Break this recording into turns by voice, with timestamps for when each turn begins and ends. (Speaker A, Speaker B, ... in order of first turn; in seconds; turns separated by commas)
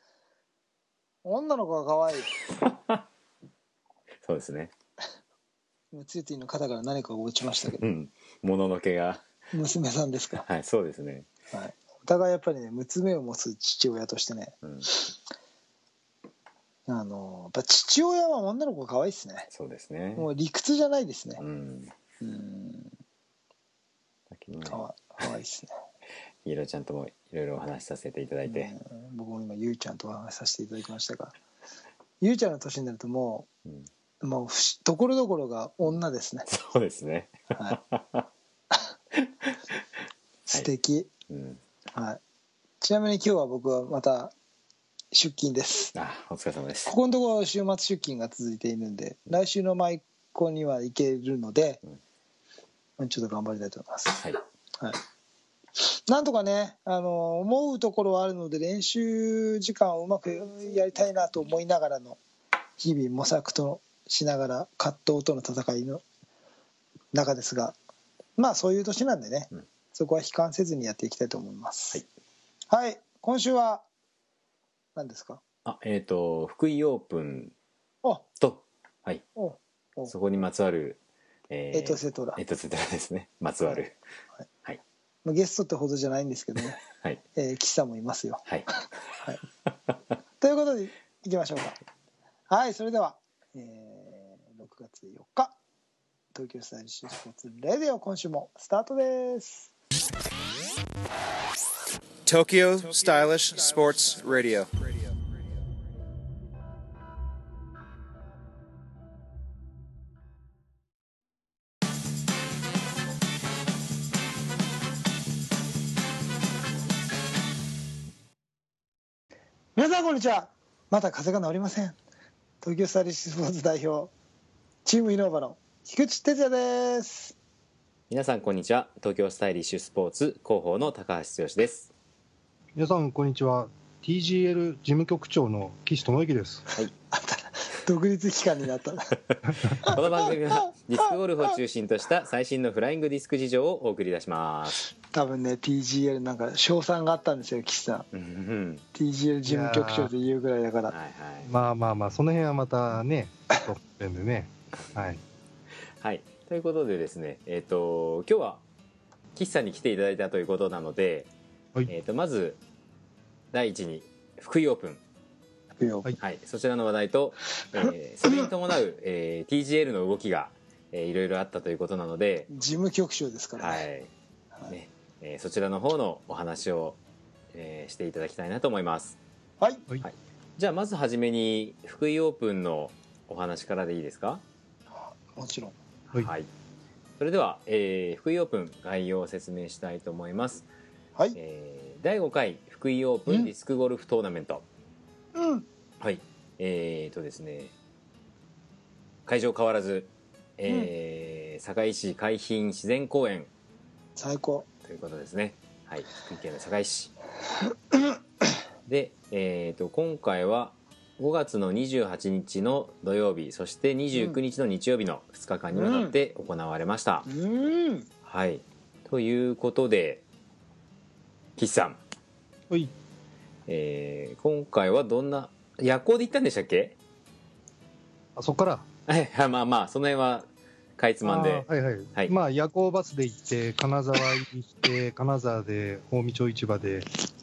Speaker A: 1.2-2.3, Speaker B: 2.6-3.0, Speaker B: 4.2-4.7, Speaker A: 5.9-7.8, Speaker B: 7.7-9.2, Speaker A: 9.5-10.4, Speaker B: 10.4-11.3, Speaker A: 11.5-15.1, Speaker A: 16.9-19.5, Speaker B: 19.5-20.3, Speaker A: 20.2-21.4, Speaker B: 21.4-21.9, Speaker A: 22.2-22.9, Speaker B: 24.3-24.8, Speaker A: 24.7-25.7, Speaker B: 26.4-28.7, Speaker A: 28.5-31.3, Speaker A: 32.2-33.5, Speaker A: 34.2-36.5, Speaker B: 36.5-38.3, Speaker B: 39.2-39.6, Speaker A: 40.5-41.1, Speaker B: 41.3-41.6, Speaker A: 41.9-42.2, Speaker A: 42.8-44.3, Speaker A: 45.1-46.0, Speaker B: 46.0-46.9, Speaker A: 46.9-51.8, Speaker A: 53.0-54.2, Speaker A: 55.8-62.2, Speaker A: 62.8-66.0, Speaker A: 67.1-67.8, Speaker A: 68.4-72.0, Speaker A: 72.7-73.8, Speaker A: 75.0-75.4, Speaker B: 75.7-77.5, Speaker B: 78.4-79.2, Speaker A: 79.4-80.1, Speaker B: 80.1-81.0, Speaker B: 81.5-84.0, Speaker A: 81.7-82.4, Speaker A: 85.2-86.8, Speaker A: 87.3-88.4, Speaker A: 90.4-91.8, Speaker A: 92.5-95.5, Speaker A: 96.3-99.7, Speaker C: 102.3-104.7, Speaker A: 119.8-122.0, Speaker A: 122.6-124.1, Speaker A: 124.8-127.3, Speaker B: 128.1-131.9, Speaker D: 132.8-136.7, Speaker A: 137.1-139.2, Speaker B: 139.3-144.8, Speaker A: 139.8-140.3, Speaker A: 145.1-148.1, Speaker B: 148.1-148.8, Speaker A: 148.9-150.9, Speaker D: 149.5-150.1, Speaker B: 150.9-151.5, Speaker D: 151.5-155.2, Speaker B: 156.0-158.6, Speaker B: 159.4-161.3, Speaker B: 161.9-162.6, Speaker B: 163.5-165.0, Speaker A: 165.8-166.1, Speaker B: 166.2-172.5, Speaker A: 172.5-173.8, Speaker B: 173.6-174.1, Speaker B: 174.7-177.0, Speaker B: 177.5-179.2, Speaker B: 180.0-184.4, Speaker A: 185.0-185.8, Speaker B: 186.1-186.5, Speaker B: 187.2-190.7, Speaker B: 191.3-194.6, Speaker A: 195.3-195.7, Speaker B: 196.0-197.7, Speaker B: 199.3-203.5, Speaker A: 204.2-204.7, Speaker B: 204.9-207.1, Speaker B: 208.9-217.3, Speaker A: 215.7-216.2, Speaker A: 217.3-218.1, Speaker B: 218.3-220.2, Speaker B: 221.6-222.0, Speaker B: 223.7-227.0, Speaker D: 228.4-228.9, Speaker B: 229.1-230.5, Speaker B: 231.0-232.3, Speaker D: 231.2-237.1